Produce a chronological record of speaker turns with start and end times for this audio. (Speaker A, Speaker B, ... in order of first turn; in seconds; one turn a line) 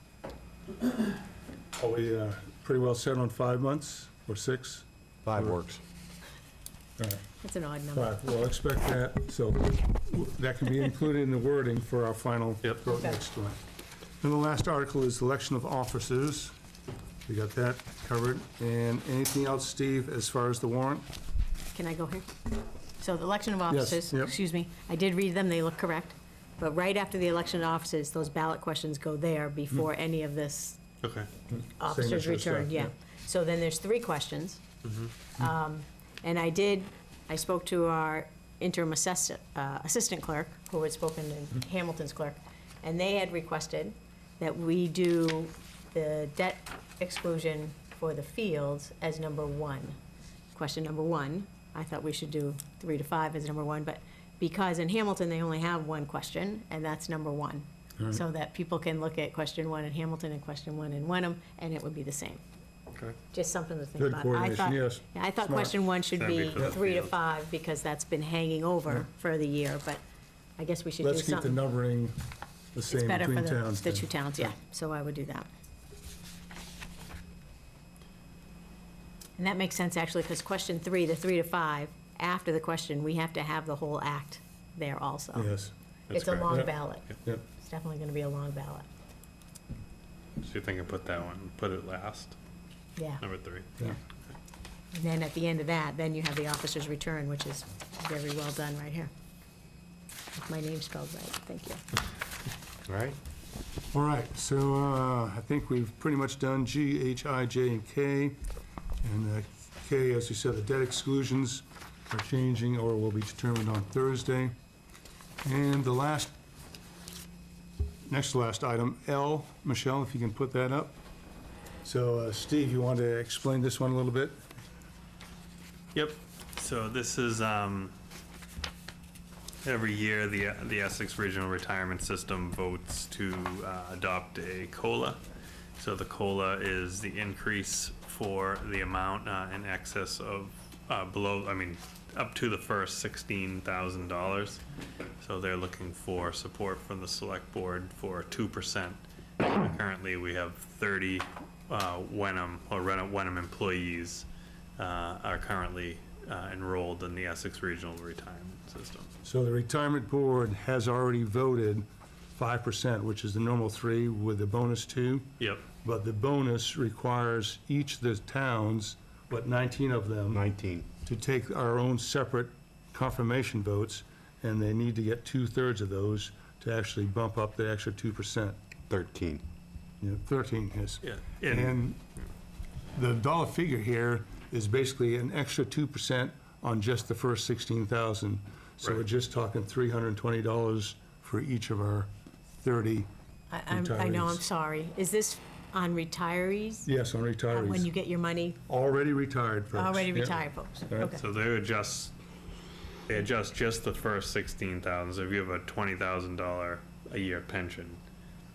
Speaker A: 1.8-5.6
Speaker B: 5.2-5.8
Speaker C: 7.4-8.1
Speaker A: 7.9-13.6
Speaker C: 12.8-13.2
Speaker A: 14.2-16.5
Speaker A: 17.3-21.1
Speaker C: 21.7-22.3
Speaker C: 23.0-30.8
Speaker A: 23.7-24.3
Speaker D: 31.0-31.3
Speaker A: 31.5-32.9
Speaker C: 31.8-34.6
Speaker D: 34.8-35.1
Speaker C: 35.4-50.0
Speaker C: 50.5-62.4
Speaker D: 62.9-63.2
Speaker C: 63.3-70.0
Speaker A: 64.0-65.7
Speaker D: 66.2-67.1
Speaker C: 70.6-71.6
Speaker A: 71.0-72.2
Speaker A: 72.7-74.1
Speaker C: 72.9-75.5
Speaker C: 79.4-85.5
Speaker A: 85.3-85.7
Speaker D: 86.1-86.5
Speaker C: 86.1-88.9
Speaker A: 86.5-87.4
Speaker D: 90.4-92.3
Speaker C: 93.0-93.2
Speaker D: 93.2-93.7
Speaker C: 94.9-99.1
Speaker C: 100.3-101.8
Speaker B: 102.9-103.2
Speaker A: 103.9-108.4
Speaker A: 109.0-114.5
Speaker A: 115.4-116.3
Speaker A: 118.1-121.0
Speaker A: 121.8-124.3
Speaker D: 125.9-127.9
Speaker D: 129.6-135.2
Speaker D: 135.8-144.6
Speaker D: 145.2-154.3
Speaker D: 154.8-159.1
Speaker A: 159.2-170.4
Speaker D: 165.4-165.6
Speaker B: 170.3-170.9
Speaker A: 171.0-178.6
Speaker B: 178.9-179.4
Speaker A: 180.0-182.0
Speaker D: 181.0-181.8
Speaker A: 182.9-192.1
Speaker A: 192.6-193.1
Speaker C: 193.5-196.9
Speaker A: 193.7-194.4
Speaker A: 196.8-197.9
Speaker C: 197.5-198.6
Speaker A: 198.7-201.2
Speaker C: 199.7-201.2
Speaker D: 201.2-202.1
Speaker D: 203.1-208.0